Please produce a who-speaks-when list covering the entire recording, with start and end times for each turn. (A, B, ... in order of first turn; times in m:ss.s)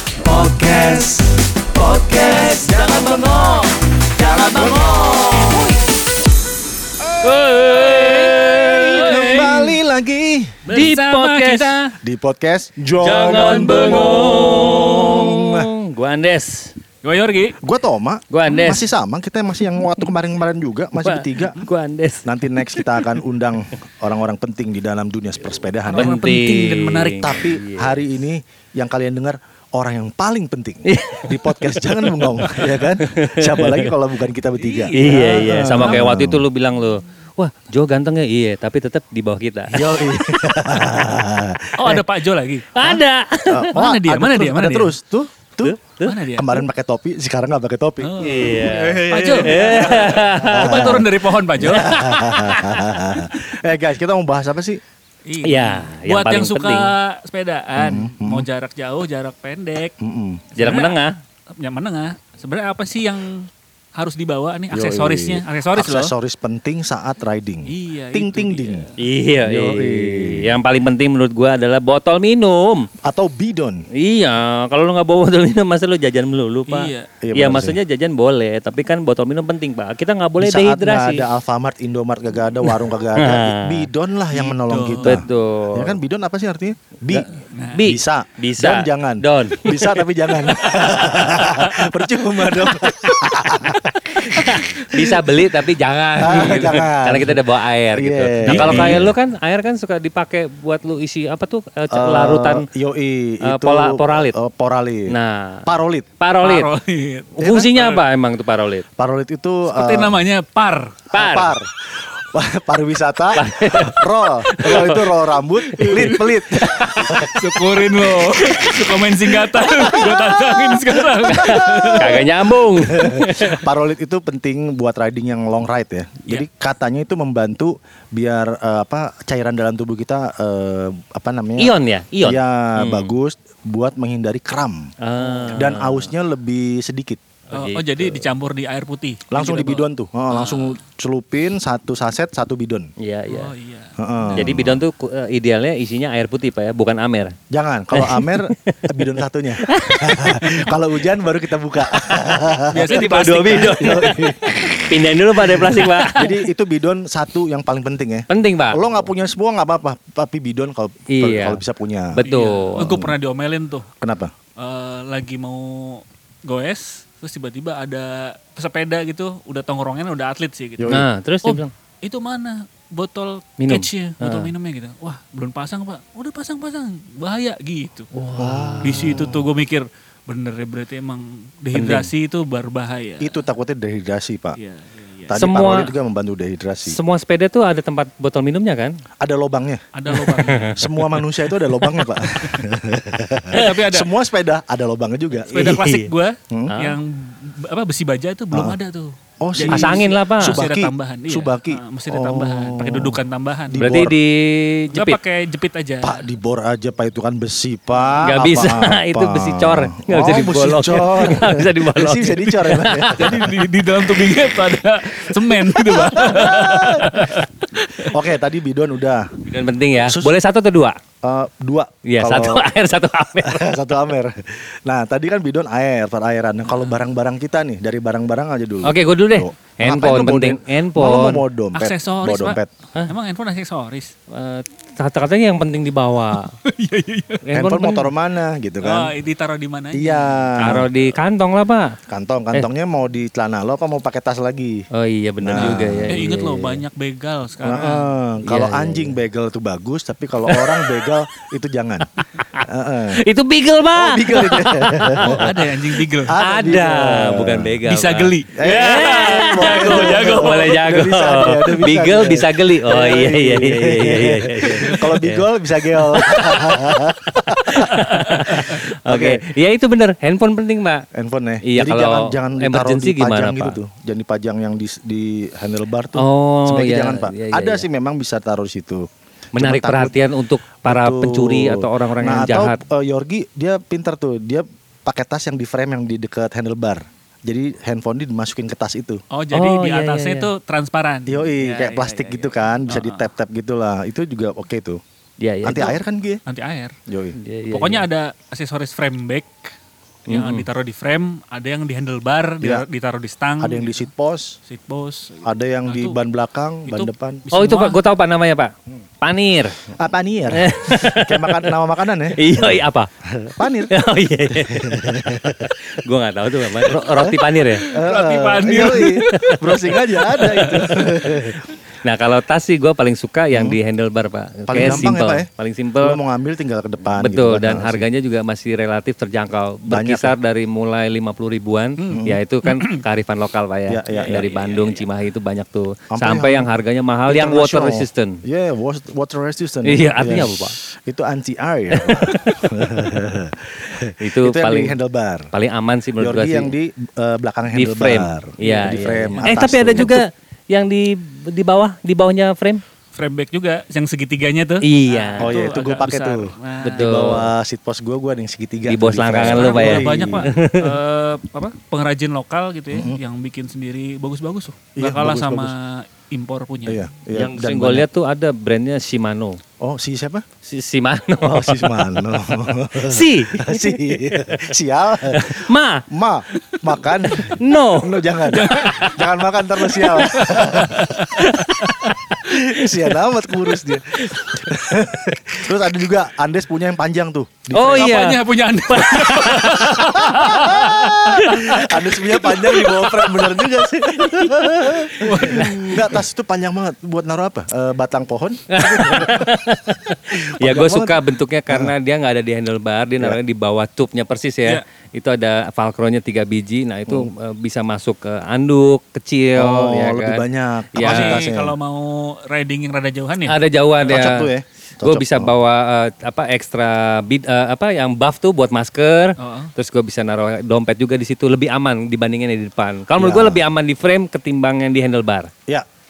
0:00.2-0:05.7 A
0:04.4-0:05.7 B
0:07.2-0:09.6 B
0:07.2-0:09.7 C
0:07.2-0:10.9 A
0:10.7-0:11.9 C
0:10.7-0:11.9 B
0:12.0-0:15.7 A
0:13.0-0:16.7 B
0:13.2-0:14.2 C
0:17.0-0:17.6 C
0:17.6-0:21.6 A
0:18.3-0:18.9 B
0:21.0-0:23.2 B
0:22.2-0:26.2 A
0:25.9-0:27.3 C
0:25.9-0:28.0 B
0:27.2-0:36.4 A
0:30.8-0:33.9 B
0:34.6-0:36.0 C
0:34.9-0:40.8 B
0:39.7-0:42.0 A
0:41.8-0:42.8 C
0:42.7-0:43.7 B
0:43.5-0:54.8 A
0:43.7-0:44.9 C
0:45.6-0:46.1 B
0:46.0-0:46.6 C
0:48.0-0:52.1 C
0:48.2-0:51.0 B
0:51.6-0:53.3 B
0:55.3-1:00.0 C
0:55.4-0:56.9 B
0:57.8-0:58.5 A
1:00.0-1:00.5 A
1:00.6-1:01.0 C
1:00.6-1:01.1 B
1:01.6-1:06.1 C
1:04.7-1:08.8 A
1:07.7-1:09.0 C
1:09.0-1:12.9 B
1:09.4-1:10.6 A
1:13.0-1:13.9 A
1:13.9-1:21.3 B
1:16.7-1:17.1 C
1:17.2-1:17.8 A
1:20.4-1:27.3 A
1:22.6-1:23.9 B
1:24.3-1:25.2 C
1:25.0-1:26.0 B
1:27.5-1:27.8 C
1:27.7-1:31.6 B
1:27.8-1:35.4 A
1:32.6-1:42.7 B
1:36.2-1:37.4 A
1:36.3-1:36.8 C
1:37.9-1:39.1 A
1:38.4-1:39.1 C
1:41.9-1:45.1 A
1:43.4-1:44.4 B
1:45.1-1:45.7 B
1:45.7-1:46.1 A
1:46.2-1:46.7 B
1:46.4-1:48.0 C
1:47.4-1:48.9 B
1:47.4-1:47.7 A
1:49.0-1:50.2 A
1:49.7-1:51.0 C
1:51.1-1:58.8 A
1:51.1-1:51.5 B
1:53.3-1:55.1 B
1:54.6-1:55.0 C
1:55.7-1:57.3 B
1:55.8-2:02.2 C
1:59.5-2:11.7 A
1:59.6-2:00.2 B
2:01.2-2:03.7 B
2:11.6-2:13.1 B
2:12.2-2:14.9 A
2:15.0-2:16.1 B
2:15.2-2:15.8 C
2:15.5-2:17.2 A
2:17.5-2:18.2 B
2:17.5-2:20.8 C
2:19.3-2:22.9 A
2:23.0-2:23.5 B
2:23.3-2:24.7 C
2:24.0-2:24.8 A
2:24.4-2:27.4 B
2:27.5-2:42.2 A
2:27.9-2:28.9 B
2:29.6-2:30.7 B
2:31.9-2:36.3 B
2:32.7-2:34.7 C
2:35.5-2:36.3 C
2:38.3-2:38.8 B
2:41.1-2:41.6 B
2:42.1-2:42.9 B
2:42.2-2:43.9 C
2:42.8-2:43.1 A
2:44.0-2:44.3 A
2:44.6-2:58.1 C
2:50.8-2:51.0 A
2:50.9-2:51.7 B
2:53.6-2:54.5 B
2:58.1-2:59.3 B
2:58.4-2:59.5 A
2:58.8-3:03.4 C
3:01.7-3:02.1 B
3:03.2-3:04.6 A
3:04.6-3:05.4 C
3:05.3-3:07.0 A
3:05.3-3:05.9 B
3:06.9-3:08.9 B
3:09.2-3:09.8 A
3:09.9-3:10.8 C
3:10.1-3:12.4 B
3:10.8-3:15.7 A
3:13.5-3:14.1 C
3:15.5-3:23.8 C
3:15.5-3:16.1 B
3:16.7-3:17.0 B
3:18.5-3:18.8 A
3:19.4-3:24.2 A
3:19.7-3:20.6 B
3:23.8-3:25.2 B
3:24.9-3:26.2 C
3:26.0-3:33.6 A
3:28.2-3:33.2 B
3:33.1-3:38.2 C
3:35.7-3:37.3 A
3:36.1-3:36.4 B
3:38.0-3:39.3 A
3:39.4-3:41.0 B
3:40.0-3:40.3 A
3:41.2-3:42.7 A
3:42.1-3:43.7 B
3:43.4-3:52.7 A
3:48.8-3:51.4 B
3:51.8-3:54.1 C
3:54.3-3:56.5 B
3:56.4-3:57.4 C
3:57.5-3:58.1 B
3:57.5-3:59.1 A
3:58.8-4:01.1 C
3:59.9-4:00.8 A
4:00.6-4:01.9 B
4:02.1-4:04.8 A
4:04.9-4:06.8 B
4:05.4-4:06.1 A
4:05.6-4:08.1 C
4:07.6-4:12.1 A
4:08.4-4:09.2 B
4:10.5-4:11.1 B
4:12.7-4:13.2 A
4:13.1-4:15.5 B
4:14.0-4:15.6 A
4:15.2-4:16.4 C
4:16.2-4:17.8 A
4:16.4-4:31.0 B
4:17.9-4:20.8 C
4:18.6-4:27.9 A
4:24.8-4:25.1 C
4:28.5-4:29.4 A
4:31.1-4:40.2 A
4:31.6-4:33.8 B
4:36.2-4:37.8 B
4:39.6-4:42.8 B
4:40.8-4:49.2 A
4:49.3-4:53.3 C
4:49.5-4:50.5 B
4:51.3-4:55.0 A
4:55.4-4:56.0 B
4:55.6-4:56.4 A
4:56.5-4:56.9 C
4:57.1-4:57.4 A
4:57.4-4:58.0 B
4:57.7-4:59.5 C
5:00.3-5:04.1 C
5:00.3-5:00.6 B
5:03.6-5:04.6 A
5:04.7-5:06.2 C
5:05.4-5:07.4 A
5:06.8-5:08.0 C
5:07.5-5:09.8 B
5:09.9-5:13.9 A
5:10.5-5:11.7 B
5:12.3-5:13.1 B
5:13.9-5:17.8 B
5:14.5-5:15.8 A
5:16.7-5:21.6 A
5:17.8-5:21.3 C
5:19.3-5:21.3 B
5:22.0-5:26.2 B
5:23.5-5:23.8 A
5:24.7-5:25.5 A
5:26.0-5:28.1 A
5:27.2-5:38.4 B
5:29.9-5:30.4 A
5:32.0-5:33.0 C
5:32.1-5:32.4 A
5:33.9-5:34.5 A
5:34.1-5:35.1 C
5:36.1-5:36.7 A
5:37.3-5:45.5 A
5:39.8-5:40.8 B
5:41.9-5:43.1 B
5:44.2-5:44.9 B
5:45.5-5:46.7 B
5:46.2-5:50.2 A
5:47.7-5:52.8 B
5:48.6-5:49.6 C
5:53.1-5:57.3 C
5:54.8-5:55.5 B
5:55.4-6:00.5 A
5:56.8-5:57.5 B
5:58.9-6:01.0 B
5:59.4-6:07.0 C
6:02.9-6:03.2 A
6:05.0-6:05.7 A
6:06.8-6:08.1 A
6:07.3-6:09.6 B
6:09.8-6:10.4 A
6:10.6-6:14.7 B
6:11.4-6:21.2 A
6:15.3-6:19.2 B
6:18.5-6:19.2 C
6:19.9-6:25.4 B
6:20.0-6:22.0 C
6:22.4-6:28.1 A
6:27.7-6:31.8 B
6:27.9-6:33.1 C
6:30.0-6:39.7 A
6:32.4-6:36.1 B
6:35.2-6:36.1 C
6:38.7-6:51.4 B
6:40.3-6:41.9 A
6:49.6-6:51.8 A
6:51.0-6:53.6 C
6:53.5-7:05.5 B
6:54.1-6:55.5 A
6:59.4-6:59.7 C
7:03.2-7:03.7 A